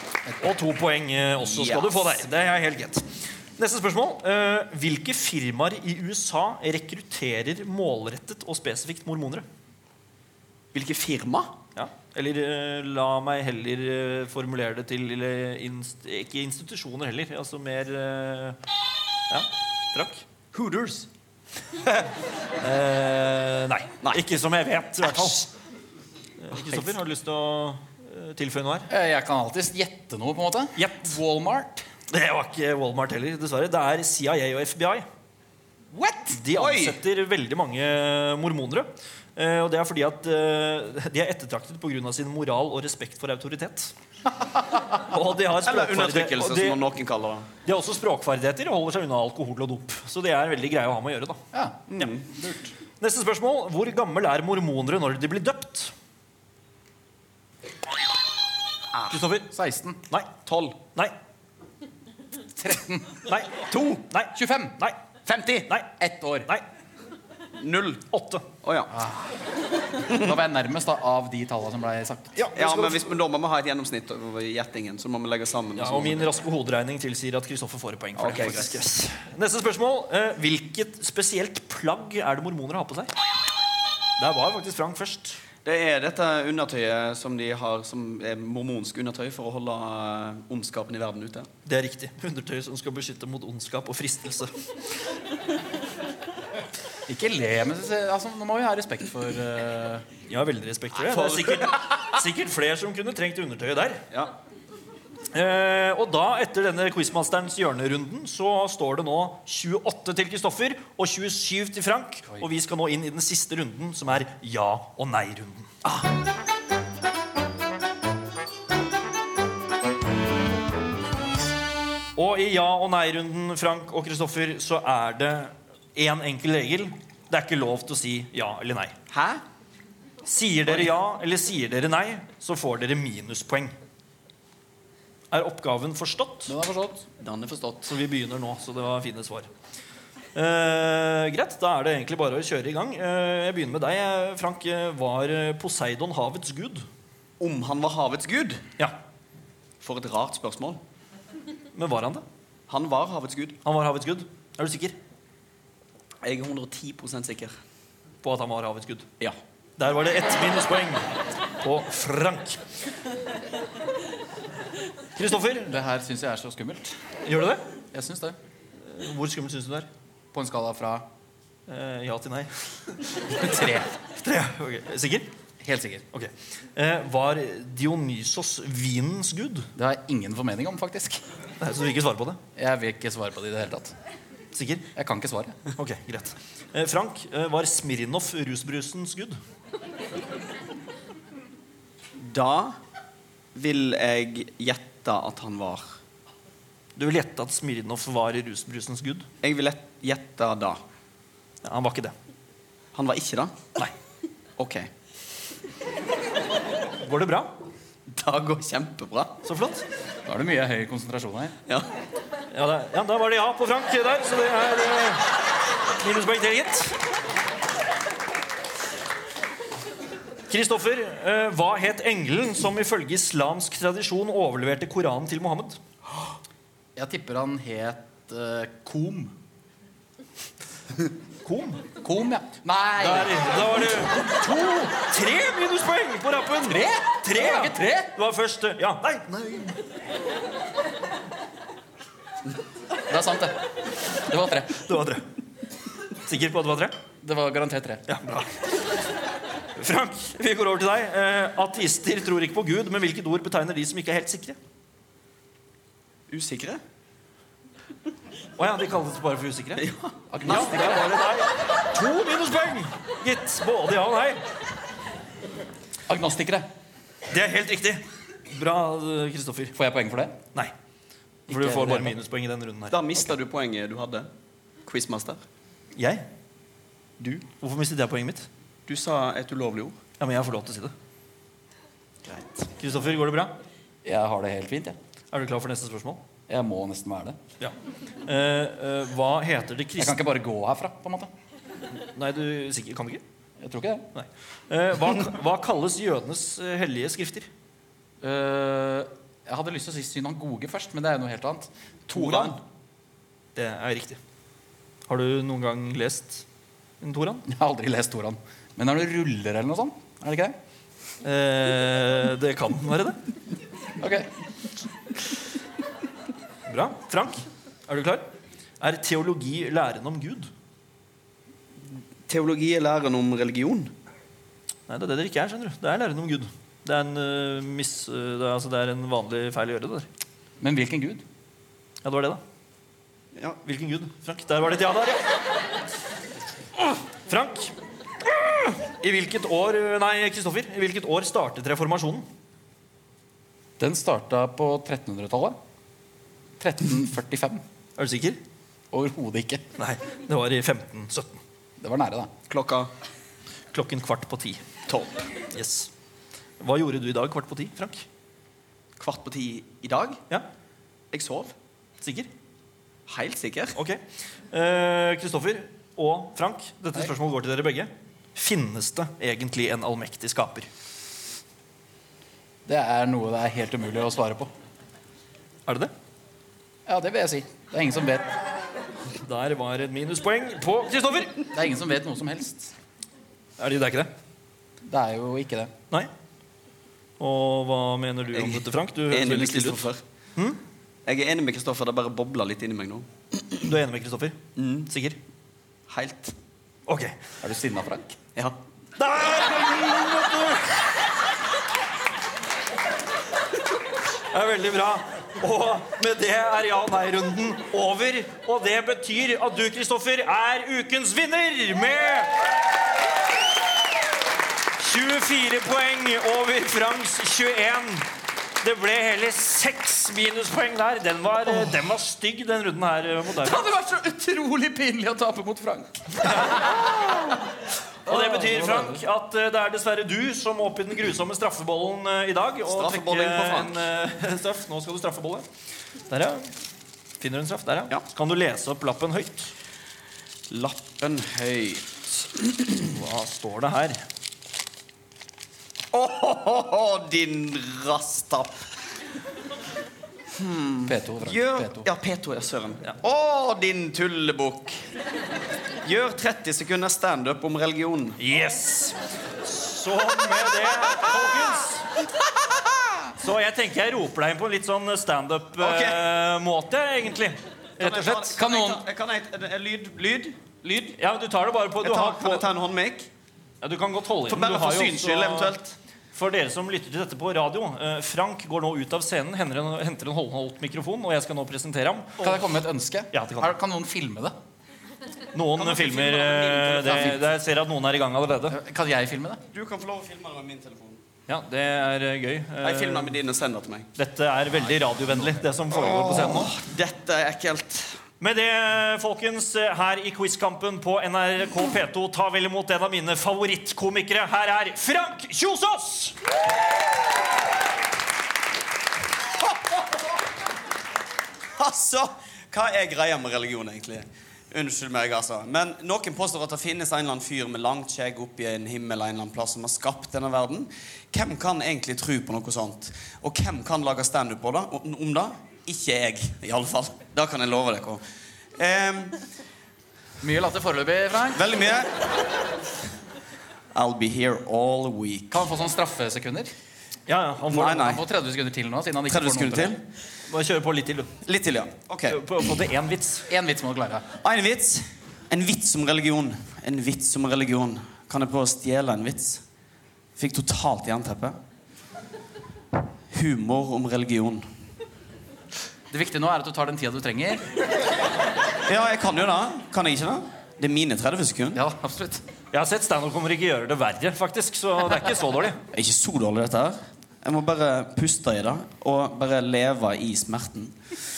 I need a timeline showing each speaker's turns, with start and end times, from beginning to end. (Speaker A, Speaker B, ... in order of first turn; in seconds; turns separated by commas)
Speaker A: 0.4-3.1, Speaker B: 1.4-2.2, Speaker A: 3.6-9.4, Speaker B: 10.7-11.6, Speaker A: 11.8-18.6, Speaker A: 19.3-20.2, Speaker B: 20.5-21.1, Speaker A: 22.6-25.5, Speaker B: 25.0-25.4, Speaker A: 26.4-28.9, Speaker C: 28.9-31.9, Speaker A: 30.8-31.2, Speaker A: 32.1-35.1, Speaker C: 35.9-36.4, Speaker A: 36.3-43.9, Speaker B: 36.5-37.0, Speaker A: 44.9-46.8, Speaker B: 45.6-47.5, Speaker A: 47.6-51.4, Speaker C: 51.5-52.7, Speaker B: 51.9-52.2, Speaker A: 53.0-55.9, Speaker B: 58.9-59.2, Speaker A: 59.1-59.5, Speaker C: 59.5-60.0, Speaker B: 60.5-60.8, Speaker C: 62.6-63.2, Speaker A: 63.3-65.0, Speaker B: 63.7-64.0, Speaker C: 64.4-64.8, Speaker B: 65.3-65.7, Speaker C: 66.0-66.5, Speaker B: 67.6-68.0, Speaker A: 68.1-68.5, Speaker B: 68.6-68.9, Speaker C: 68.9-69.3, Speaker C: 70.0-72.4, Speaker A: 72.4-73.0, Speaker B: 72.5-76.3, Speaker A: 75.8-83.1, Speaker B: 78.2-78.8, Speaker A: 84.2-85.4, Speaker B: 85.7-91.5, Speaker A: 91.7-94.5, Speaker C: 97.1-100.1, Speaker A: 100.3-104.0, Speaker B: 101.0-101.8, Speaker A: 105.3-116.0, Speaker A: 122.2-128.9, Speaker B: 129.1-129.4, Speaker A: 130.2-133.7, Speaker A: 135.3-136.5, Speaker C: 136.5-137.1, Speaker B: 137.2-137.9, Speaker A: 137.9-139.5, Speaker A: 140.3-146.9, Speaker B: 147.4-148.6, Speaker B: 149.8-150.8, Speaker A: 151.8-152.2, Speaker B: 152.7-153.6, Speaker A: 153.7-154.9, Speaker B: 156.2-157.6, Speaker A: 158.2-159.1, Speaker A: 159.8-161.1, Speaker A: 161.6-162.6, Speaker A: 165.2-165.7, Speaker C: 165.7-166.9, Speaker A: 167.2-167.6, Speaker C: 167.9-168.4, Speaker A: 168.9-169.9, Speaker C: 170.3-171.1, Speaker A: 171.7-172.5, Speaker A: 173.1-173.5, Speaker C: 173.3-173.9, Speaker A: 174.2-175.3, Speaker C: 175.6-176.0, Speaker A: 176.1-179.7, Speaker C: 179.8-181.2, Speaker A: 181.6-182.4, Speaker C: 182.6-183.9, Speaker A: 184.5-184.9, Speaker C: 184.9-185.6, Speaker A: 185.8-189.4, Speaker B: 192.2-192.8, Speaker B: 193.5-195.9, Speaker A: 197.0-199.3, Speaker B: 199.4-200.8, Speaker A: 201.6-202.1, Speaker B: 202.9-203.6, Speaker B: 204.6-204.9, Speaker A: 207.0-207.5, Speaker B: 208.1-209.4, Speaker A: 209.4-209.8, Speaker C: 210.3-211.6, Speaker A: 212.5-215.3, Speaker A: 216.0-216.9, Speaker A: 220.5-225.8, Speaker C: 227.0-229.3, Speaker A: 231.4-231.8, Speaker C: 232.0-233.6, Speaker A: 233.0-239.8, Speaker C: 234.2-234.9, Speaker C: 236.7-238.1, Speaker C: 243.1-244.8, Speaker A: 244.7-245.2, Speaker A: 246.2-246.9, Speaker C: 247.2-248.0, Speaker A: 248.1-248.8, Speaker A: 249.8-254.6, Speaker B: 256.3-256.8, Speaker A: 258.6-259.9, Speaker B: 259.8-261.1, Speaker C: 260.3-261.0, Speaker A: 260.5-264.4, Speaker C: 266.1-266.7, Speaker A: 267.3-269.8, Speaker C: 269.8-270.4, Speaker C: 271.5-272.1, Speaker A: 271.5-273.0, Speaker B: 272.9-274.3, Speaker B: 274.9-275.4, Speaker A: 276.0-276.2, Speaker A: 277.2-278.5, Speaker B: 278.9-280.0, Speaker A: 280.2-280.9, Speaker B: 282.2-282.7, Speaker A: 282.8-283.5, Speaker C: 284.1-285.0, Speaker A: 285.3-286.2, Speaker C: 286.5-287.4, Speaker A: 288.3-290.2, Speaker C: 290.0-291.3, Speaker A: 292.1-293.2, Speaker C: 293.6-294.1, Speaker A: 294.1-297.5, Speaker C: 298.2-302.6, Speaker A: 302.1-302.6, Speaker A: 303.6-304.2, Speaker A: 305.1-306.4, Speaker A: 307.0-307.4, Speaker C: 307.5-310.6, Speaker A: 311.2-313.2, Speaker C: 314.0-314.3, Speaker A: 316.7-318.3, Speaker A: 318.8-320.5, Speaker B: 321.9-323.9, Speaker A: 324.9-330.1, Speaker C: 330.6-331.2, Speaker A: 332.0-332.4, Speaker A: 333.6-335.2, Speaker A: 337.3-342.3, Speaker C: 343.8-345.6, Speaker C: 346.6-347.6, Speaker A: 348.0-348.4, Speaker C: 348.9-349.6, Speaker A: 349.8-351.4, Speaker C: 351.8-352.3, Speaker B: 352.5-352.9, Speaker A: 353.7-354.6, Speaker B: 354.9-355.2, Speaker A: 355.5-355.9, Speaker A: 356.6-358.1, Speaker B: 359.0-360.2, Speaker B: 361.1-361.6, Speaker A: 362.0-362.3, Speaker B: 363.1-363.8, Speaker A: 364.5-370.7, Speaker C: 372.7-374.5, Speaker C: 376.9-378.3, Speaker A: 379.2-381.4, Speaker C: 381.5-382.7, Speaker A: 383.6-384.1, Speaker C: 384.8-385.7, Speaker A: 387.2-389.9, Speaker B: 388.3-390.0, Speaker B: 391.1-393.1, Speaker A: 393.6-395.2, Speaker B: 394.6-394.9, Speaker B: 395.9-396.4, Speaker A: 396.9-397.2, Speaker C: 397.4-398.2, Speaker A: 399.0-400.9, Speaker A: 404.3-412.3, Speaker A: 414.8-418.1, Speaker A: 418.6-423.6, Speaker C: 423.4-427.2, Speaker A: 426.2-426.8, Speaker C: 428.1-429.0, Speaker A: 428.1-435.5, Speaker B: 432.6-433.9, Speaker A: 436.1-436.5, Speaker A: 437.2-439.5, Speaker B: 440.5-442.9, Speaker A: 442.9-444.0, Speaker B: 445.9-448.6, Speaker B: 450.3-454.9, Speaker C: 450.9-451.9, Speaker B: 455.8-458.2, Speaker A: 458.2-461.9, Speaker A: 463.2-468.4, Speaker B: 465.6-466.1, Speaker B: 467.8-471.0, Speaker C: 468.0-468.8, Speaker A: 471.0-472.5, Speaker B: 471.8-473.1, Speaker A: 473.6-475.6, Speaker B: 474.3-475.8, Speaker A: 476.1-482.5, Speaker C: 482.2-484.3, Speaker A: 483.1-483.5, Speaker A: 485.3-488.6, Speaker B: 485.6-487.2, Speaker C: 486.9-487.2, Speaker C: 488.5-489.4, Speaker B: 489.5-491.0, Speaker A: 491.3-493.2, Speaker B: 492.6-493.9, Speaker A: 494.0-496.6, Speaker C: 494.9-495.4, Speaker B: 495.9-498.0, Speaker A: 498.2-506.1, Speaker B: 511.6-528.0, Speaker B: 528.5-529.2, Speaker C: 530.2-531.5, Speaker B: 531.3-532.1, Speaker B: 533.7-535.4, Speaker C: 535.3-536.5, Speaker A: 537.1-537.9, Speaker B: 537.5-538.0, Speaker C: 537.7-539.8, Speaker B: 539.1-539.8, Speaker A: 540.3-541.1, Speaker B: 541.2-542.2, Speaker A: 542.1-543.3, Speaker C: 543.3-544.0, Speaker B: 544.2-549.4, Speaker B: 550.2-551.4, Speaker B: 553.1-554.5, Speaker C: 555.9-557.5, Speaker B: 558.7-561.6, Speaker C: 561.5-562.2, Speaker A: 562.5-565.6, Speaker B: 565.7-570.8